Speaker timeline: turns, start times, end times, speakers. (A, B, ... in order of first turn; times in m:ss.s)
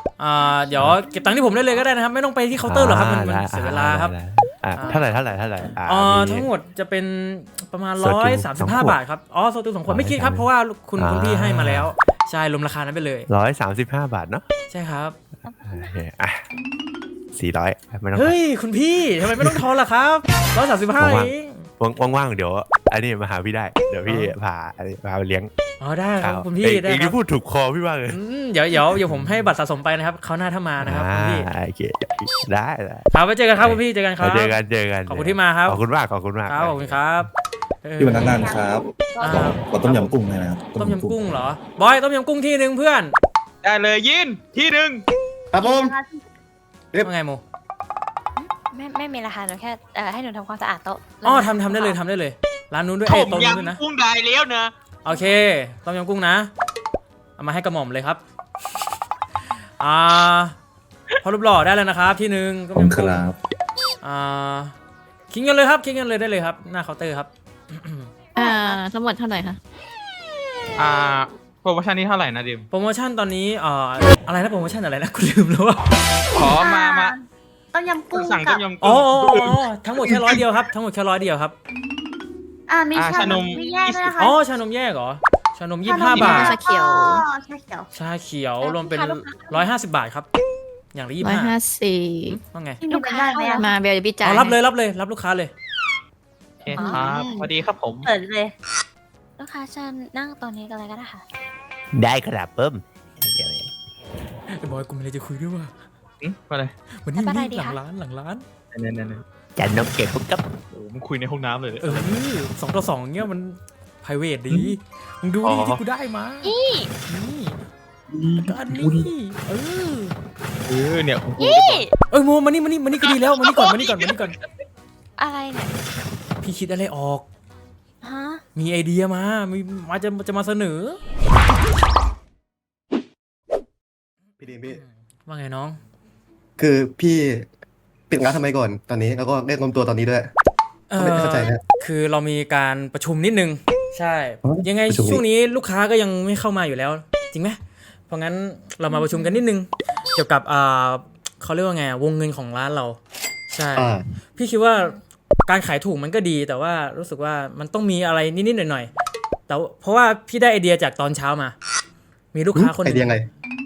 0:00.2-0:04.1 A
0:00.7-0:01.0 B
0:02.6-0:06.5 B
0:04.7-0:05.1 A
0:04.8-0:05.7 C
0:05.6-0:13.3 A
0:08.0-0:09.0 B
0:09.9-0:11.9 B
0:13.3-0:14.4 B
0:14.7-0:15.2 A
0:15.4-0:16.0 C
0:15.6-0:16.4 B
0:17.3-0:18.4 B
0:18.1-0:21.6 A
0:21.0-0:25.5 B
0:24.1-0:24.3 A
0:25.8-0:27.2 A
0:26.2-0:28.2 B
0:28.1-0:31.5 A
0:28.9-0:29.5 B
0:30.8-0:33.1 B
0:33.1-0:35.8 A
0:33.6-0:37.0 B
0:36.5-0:37.3 A
0:37.8-0:38.4 A
0:38.0-0:41.2 D
0:38.3-0:38.7 E
0:39.2-0:39.6 C
0:39.2-0:40.1 A
0:40.7-0:43.1 A
0:43.6-0:45.0 F
0:45.5-0:45.9 G
0:45.6-0:46.2 E
0:47.0-0:47.4 A
0:48.4-0:52.0 C
0:51.2-0:53.8 A
0:53.0-0:54.7 F
0:55.0-0:56.5 A
0:55.1-0:55.4 C
0:57.4-0:58.2 A
0:59.8-1:00.6 A
1:01.2-1:03.2 A
1:02.7-1:03.4 D
1:04.0-1:04.7 A
1:05.3-1:08.1 A
1:08.3-1:09.6 H
1:10.8-1:12.7 F
1:12.7-1:16.0 A
1:16.3-1:17.1 F
1:16.4-1:18.6 E
1:18.1-1:20.4 F
1:18.8-1:21.5 A
1:22.7-1:24.4 E
1:22.9-1:24.1 F
1:24.2-1:26.5 A
1:25.8-1:27.9 E
1:26.1-1:27.2 H
1:26.1-1:26.5 F
1:27.9-1:30.3 A
1:28.6-1:29.7 C
1:30.9-1:31.5 A
1:31.2-1:32.4 H
1:32.3-1:32.8 A
1:32.8-1:33.6 E
1:32.9-1:33.8 C
1:33.6-1:34.6 H
1:34.2-1:35.5 A
1:36.6-1:38.1 F
1:36.8-1:37.5 E
1:36.8-1:37.1 C
1:38.0-1:38.5 E
1:39.4-1:41.2 C
1:41.9-1:43.7 B
1:44.5-1:45.7 A
1:46.2-1:46.7 F
1:47.0-1:48.4 A
1:47.1-1:47.8 C
1:48.7-1:49.2 F
1:49.6-1:50.4 B
1:50.7-1:52.1 F
1:51.8-1:56.5 A
1:55.4-1:55.8 F
1:56.4-1:56.9 C
1:57.0-1:57.6 A
1:58.1-1:59.1 F
1:58.4-2:00.1 A
2:00.7-2:01.8 F
2:01.4-2:01.9 C
2:02.1-2:04.4 A
2:03.0-2:04.1 F
2:05.2-2:05.7 C
2:06.4-2:07.3 A
2:08.0-2:08.4 C
2:08.5-2:11.0 A
2:14.4-2:14.8 G
2:14.7-2:15.8 A
2:16.6-2:17.5 G
2:18.1-2:20.3 G
2:20.9-2:33.0 A
2:21.0-2:21.6 G
2:24.4-2:25.2 G
2:28.9-2:29.4 C
2:33.5-2:35.0 A
2:33.8-2:34.0 G
2:35.5-2:38.9 A
2:39.5-2:41.5 A
2:42.3-2:43.2 A
2:42.5-2:43.3 G